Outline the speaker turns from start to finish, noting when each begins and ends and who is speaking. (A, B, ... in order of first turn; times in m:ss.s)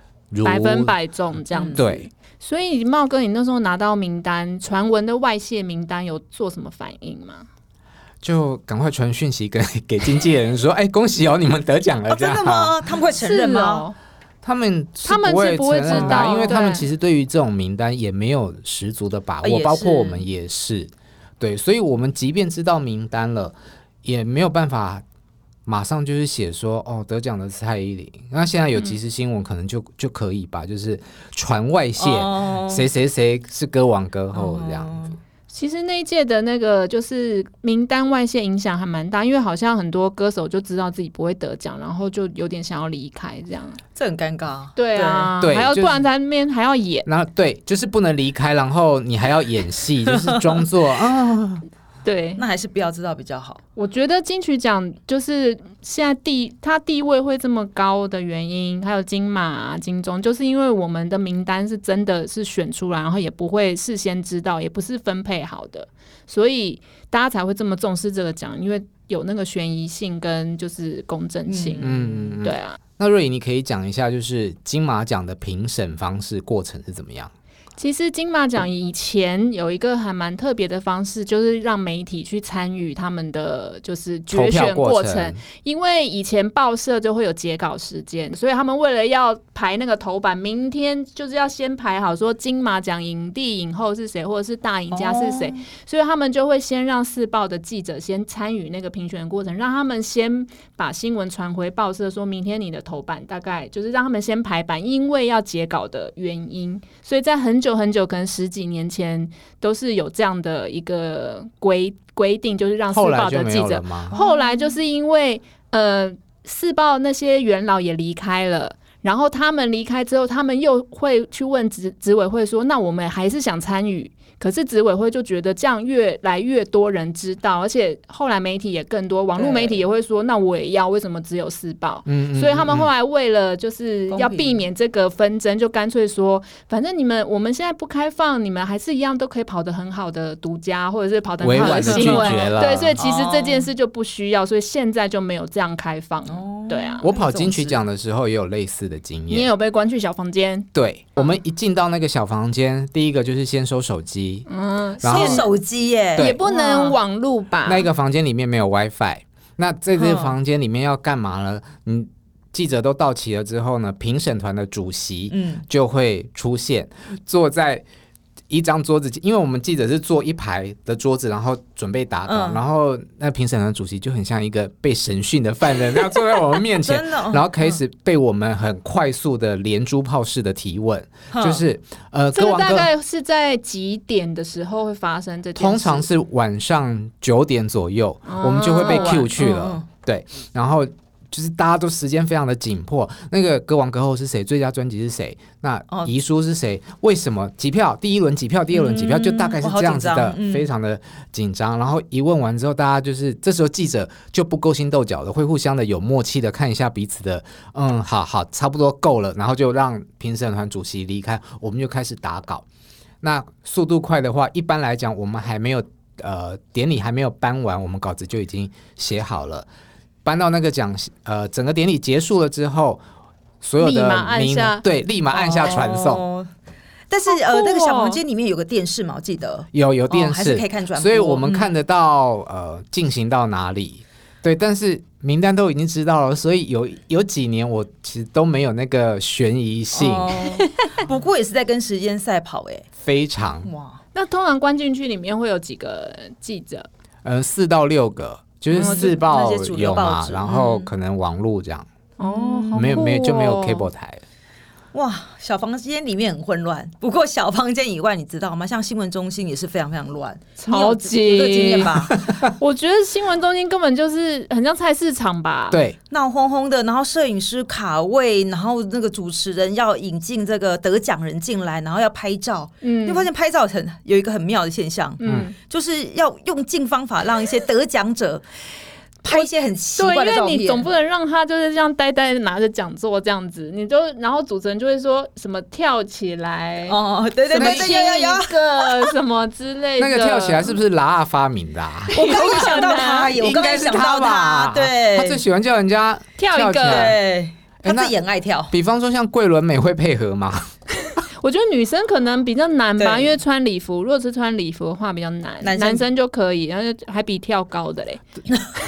0:00.3-0:01.0 A
0:00.4-0:07.5 B
0:01.5-0:01.9 C
0:01.8-0:02.1 A
0:08.2-0:12.7 A
0:12.1-0:13.9 C
0:13.2-0:14.0 B
0:14.4-0:25.0 A
0:15.0-0:16.9 B
0:15.8-0:16.5 C
0:19.4-0:20.3 C
0:25.6-0:35.0 A
0:32.0-0:32.9 C
0:34.3-0:35.2 C
0:35.5-0:43.8 B
0:44.0-0:45.3 C
0:44.8-0:47.1 B
0:45.4-0:46.0 A
0:47.1-0:51.6 A
0:50.1-0:50.6 C
0:52.0-0:52.4 B
0:52.4-0:53.6 C
0:53.8-1:12.8 B
1:11.5-1:12.4 C
1:11.8-1:17.3 A
1:17.8-2:27.1 B
1:24.3-1:25.4 A
1:34.9-1:35.6 C
1:52.9-1:54.2 A
1:54.1-1:54.8 C
2:09.4-2:09.8 C
2:12.0-2:12.9 A
2:14.1-2:14.6 C
2:21.4-2:23.0 A
2:21.5-2:23.7 C
2:26.3-2:27.9 C
2:27.0-2:29.5 A
2:29.3-2:30.7 B
2:30.7-2:34.5 A
2:34.5-2:35.5 B
2:35.0-2:35.5 A
2:35.0-2:37.0 C
2:36.2-2:37.9 B
2:37.6-2:47.8 A
2:40.0-2:40.4 C
2:45.3-2:45.6 C
2:48.5-3:02.9 A
2:52.2-2:52.6 C
2:56.8-2:57.8 C
3:01.3-3:01.6 C
3:02.4-3:06.1 B
3:05.6-3:32.6 A
3:08.2-3:09.3 B
3:08.8-3:09.9 C
3:18.7-3:20.7 C
3:33.2-3:39.7 A
3:40.2-3:43.0 A
3:43.6-3:46.2 A
3:43.8-3:44.8 B
3:45.4-3:45.7 B
3:45.4-3:46.5 C
3:47.1-3:51.8 C
3:47.3-3:48.2 B
3:49.7-4:00.4 A
3:59.9-4:02.8 C
4:03.0-4:03.7 A
4:03.6-4:04.0 C
4:04.1-4:06.9 B
4:07.2-4:11.9 A
4:08.7-4:10.9 C
4:08.8-4:09.2 B
4:12.2-4:13.9 B
4:12.2-4:13.1 C
4:12.8-4:14.2 A
4:14.9-4:22.2 C
4:20.6-4:21.9 B
4:22.5-4:25.8 B
4:25.7-4:26.0 A
4:26.1-4:38.4 C
4:32.8-4:33.3 B
4:35.2-4:35.5 B
4:35.2-4:35.5 A
4:39.2-4:40.9 C
4:39.3-4:50.8 B
4:46.9-4:49.1 C
4:47.6-4:47.9 A
4:50.0-4:57.2 A
4:52.1-4:53.6 B
4:52.2-4:55.4 C
4:56.4-4:57.1 B
4:56.8-4:58.7 C
4:57.8-4:58.1 A
4:58.7-5:00.7 A
5:01.4-5:08.2 B
5:03.0-5:03.4 C
5:05.6-5:06.1 C